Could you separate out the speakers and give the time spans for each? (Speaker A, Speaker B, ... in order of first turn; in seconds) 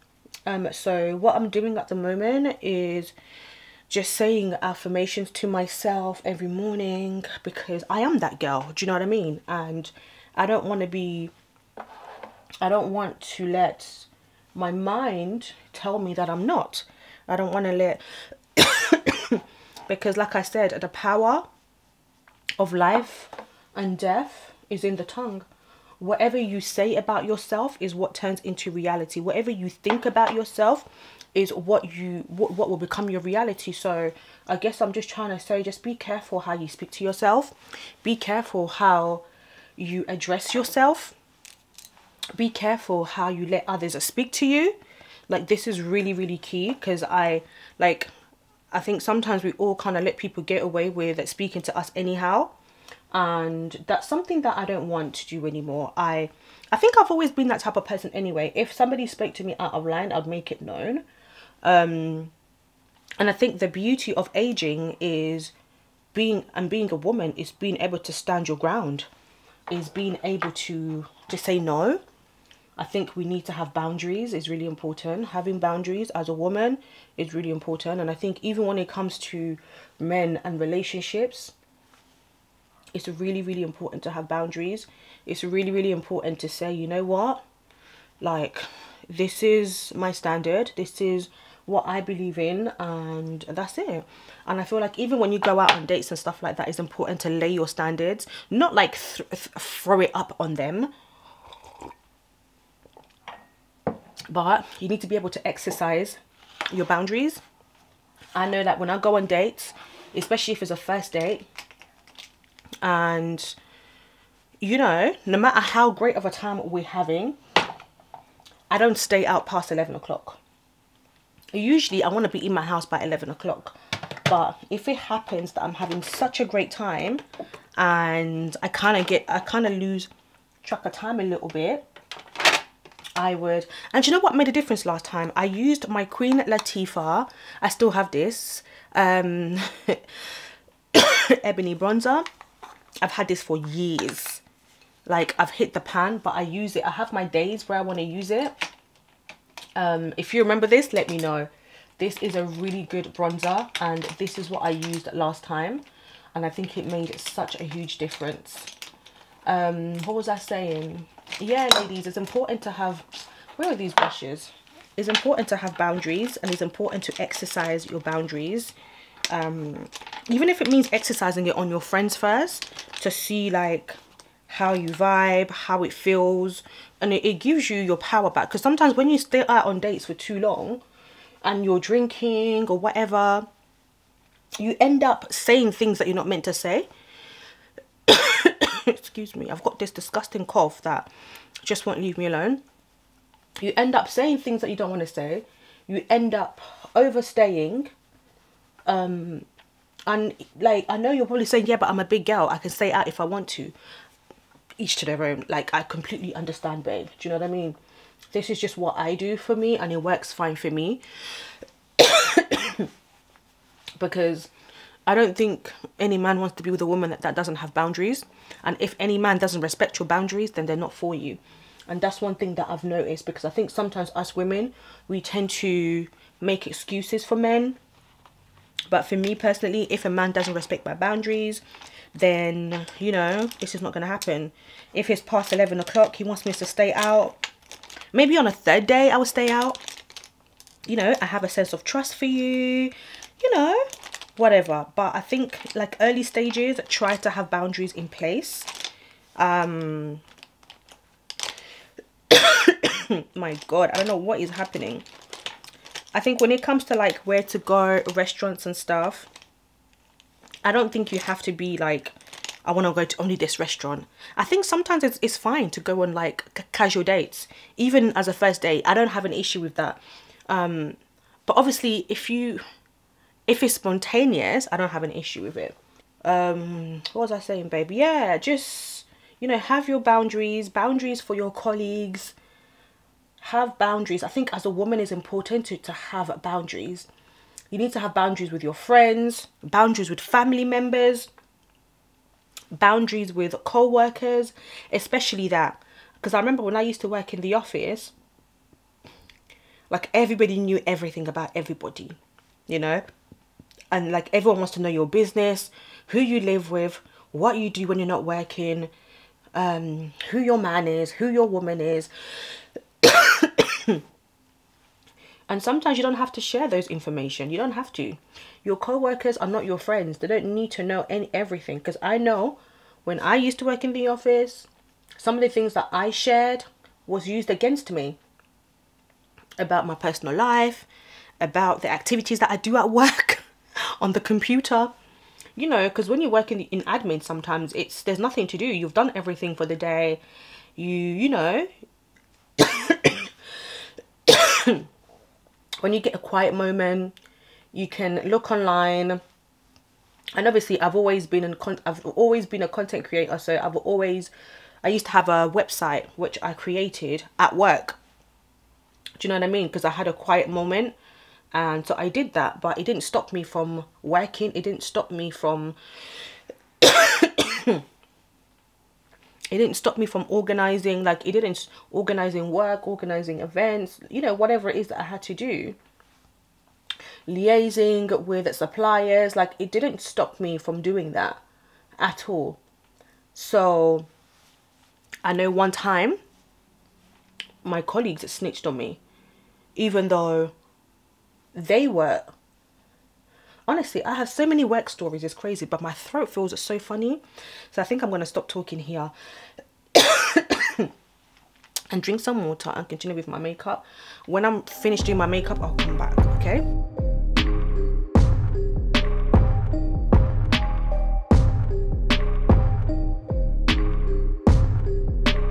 Speaker A: 0.5-3.1, 3.9-11.3, 12.6-18.0, 18.5-21.5, 22.6-25.5, 26.0-39.2, 39.8-41.2, 42.4-44.8, 45.3-48.1, 48.7-52.5, 53.1-61.0, 61.6-62.3, 63.2-65.5, 66.1-69.1, 69.7-72.0, 72.8-81.5, 82.9-87.4, 88.2-100.9, 104.3-106.2, 106.7-107.4, 108.3-111.5, 112.8-113.6, 114.6-117.4, 118.7-120.4, 121.5-127.2, 127.8-130.1, 130.6-131.9, 133.2-140.4, 140.9-142.3, 143.0-144.4, 145.1-148.6, 149.8-158.7, 159.5-168.8, 169.3-180.8, 181.4-183.5, 184.6-186.9, 188.1-191.1, 191.6-192.6, 193.6-197.9, 198.9-199.5, 200.1-203.7, 204.8-207.8, 208.3-211.0, 212.0-212.9, 214.0-214.5, 215.1-227.8, 228.9-231.6, 232.1-237.4, 238.1-239.8, 240.9-248.7, 249.4-250.2, 252.3-255.1, 256.1-259.3, 260.6-272.6, 273.5-282.4, 283.4-287.1, 287.7-291.3, 292.7-298.1, 299.9-302.2, 302.7-303.0, 303.9-308.9, 309.5-312.1, 313.0-314.0, 315.5-328.2, 329.6-330.9, 331.4-333.4, 334.0-334.9, 335.6-340.2, 340.8-341.7, 342.6-343.3, 344.3-344.9, 345.8-347.1, 347.7-349.2, 350.4-354.3, 354.8-358.0, 359.2-361.0, 361.5-365.8, 366.8-367.8, 369.5-375.8, 377.3-381.4, 382.0-382.6, 383.3-384.1, 385.2-386.2, 387.6-389.0, 389.8-390.5, 391.6-392.3, 393.7-399.1, 399.9-400.9, 401.9-406.6